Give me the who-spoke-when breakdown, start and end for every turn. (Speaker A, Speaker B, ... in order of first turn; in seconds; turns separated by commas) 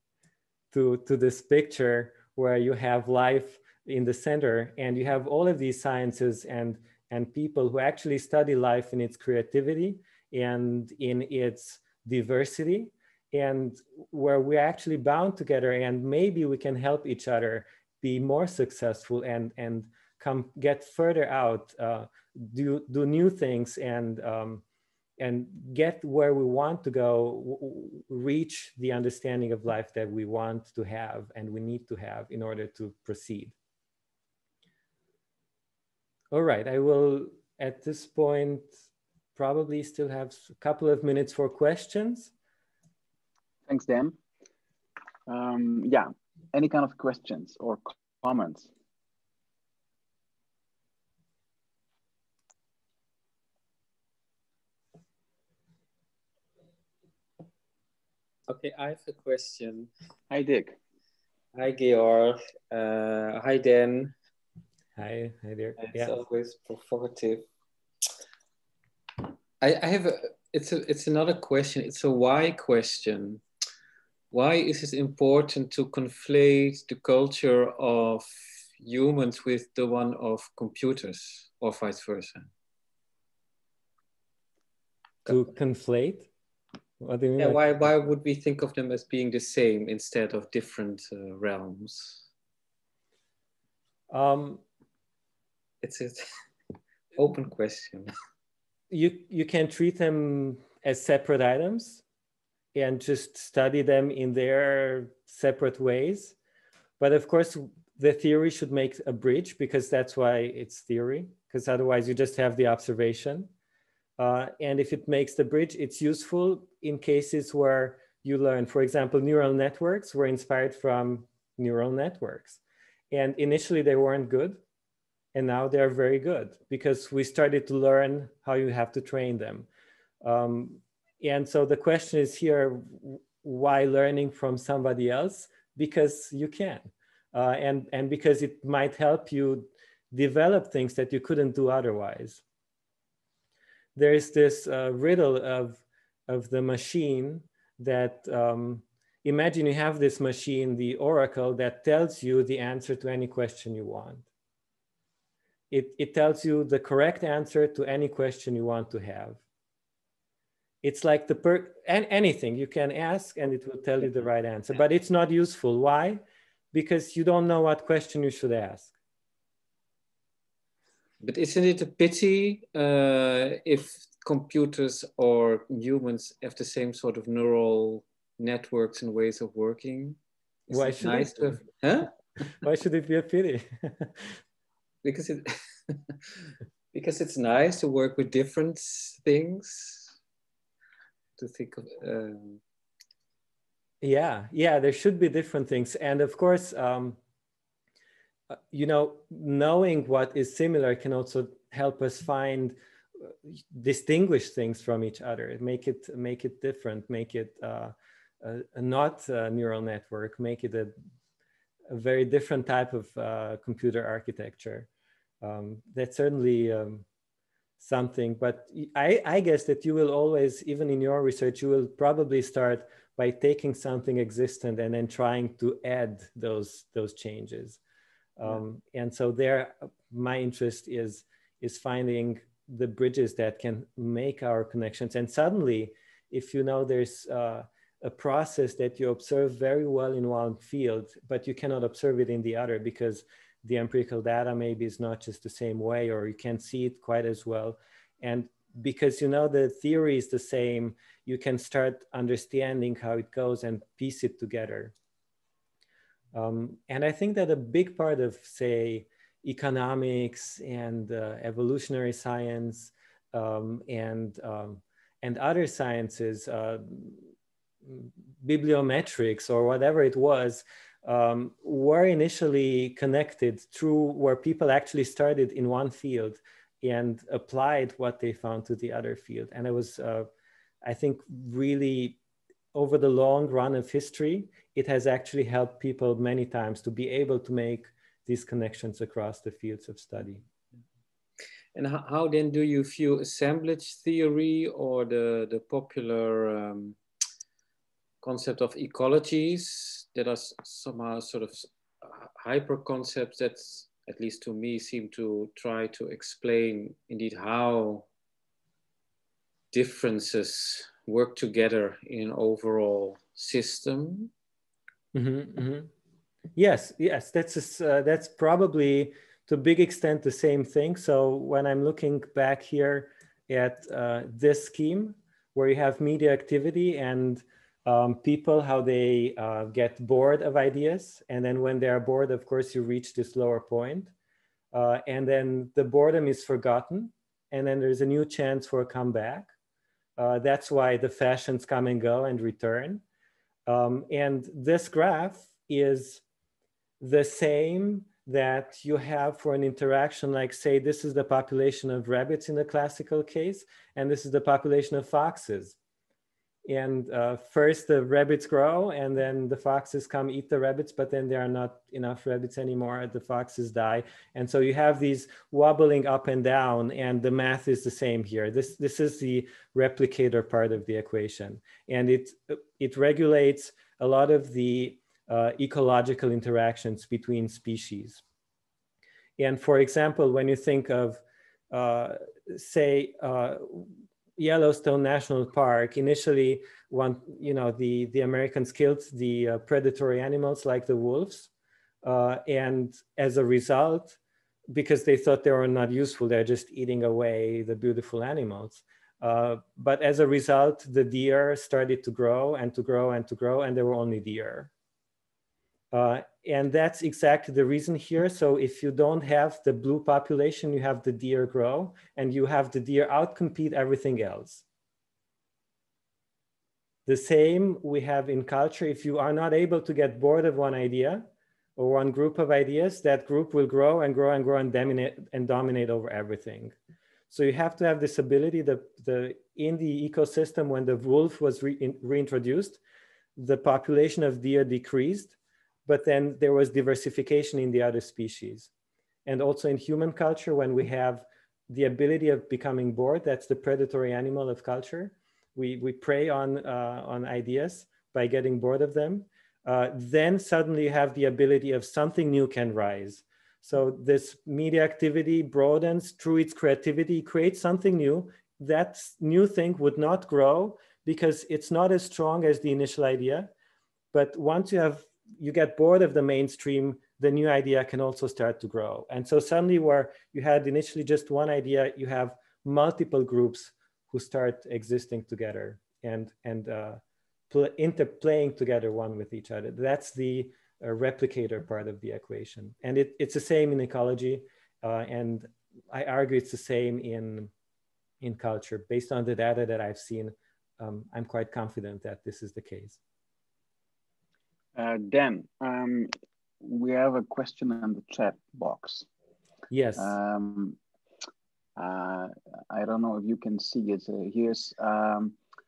Speaker A: 0.7-24.6, Speaker A: 25.2-33.5, Speaker A: 36.3-38.7, Speaker A: 39.4-42.3, Speaker B: 43.7-44.2, Speaker B: 45.3-48.7, Speaker C: 58.5-59.9, Speaker B: 60.3-60.8, Speaker C: 61.5-64.1, Speaker A: 65.0-66.2, Speaker C: 65.8-67.4, Speaker C: 69.6-73.4, Speaker C: 74.3-78.2, Speaker C: 78.8-82.5, Speaker A: 85.2-86.3, Speaker A: 87.0-87.6, Speaker C: 87.4-92.2, Speaker A: 94.1-94.6, Speaker C: 95.8-96.2, Speaker C: 97.1-98.1, Speaker A: 98.9-102.0, Speaker A: 102.7-106.3, Speaker A: 107.0-113.5, Speaker A: 114.2-122.6, Speaker A: 123.1-124.6, Speaker A: 125.3-129.7, Speaker A: 130.2-142.4, Speaker A: 143.9-154.2, Speaker A: 155.7-159.4, Speaker A: 160.8-168.9, Speaker C: 171.2-182.1, Speaker A: 180.7-181.6, Speaker A: 182.6-184.3, Speaker C: 185.0-186.0, Speaker C: 186.9-190.1, Speaker C: 191.4-192.6, Speaker A: 194.0-197.2, Speaker A: 198.5-210.9, Speaker A: 211.9-214.9, Speaker A: 215.4-217.0, Speaker A: 217.8-227.8, Speaker A: 228.4-254.9, Speaker A: 256.3-267.2, Speaker A: 267.8-280.3, Speaker A: 280.8-282.2, Speaker A: 282.7-290.4, Speaker C: 291.7-297.0, Speaker C: 298.2-308.1, Speaker C: 309.7-314.3, Speaker A: 315.1-315.9, Speaker A: 316.6-334.1, Speaker A: 334.7-339.5, Speaker A: 340.2-343.0, Speaker A: 343.7-346.2, Speaker A: 347.0-355.8, Speaker A: 356.6-378.2, Speaker A: 379.4-391.5, Speaker A: 392.0-394.2, Speaker A: 394.7-404.7, Speaker A: 405.9-414.6, Speaker A: 417.1-421.2, Speaker A: 421.8-426.7, Speaker A: 427.3-432.8, Speaker A: 433.4-435.3, Speaker A: 435.9-438.7, Speaker A: 439.2-463.5, Speaker A: 464.1-487.5, Speaker A: 488.2-493.0, Speaker B: 494.8-499.1, Speaker A: 499.7-500.1, Speaker B: 500.0-500.8, Speaker B: 501.8-505.4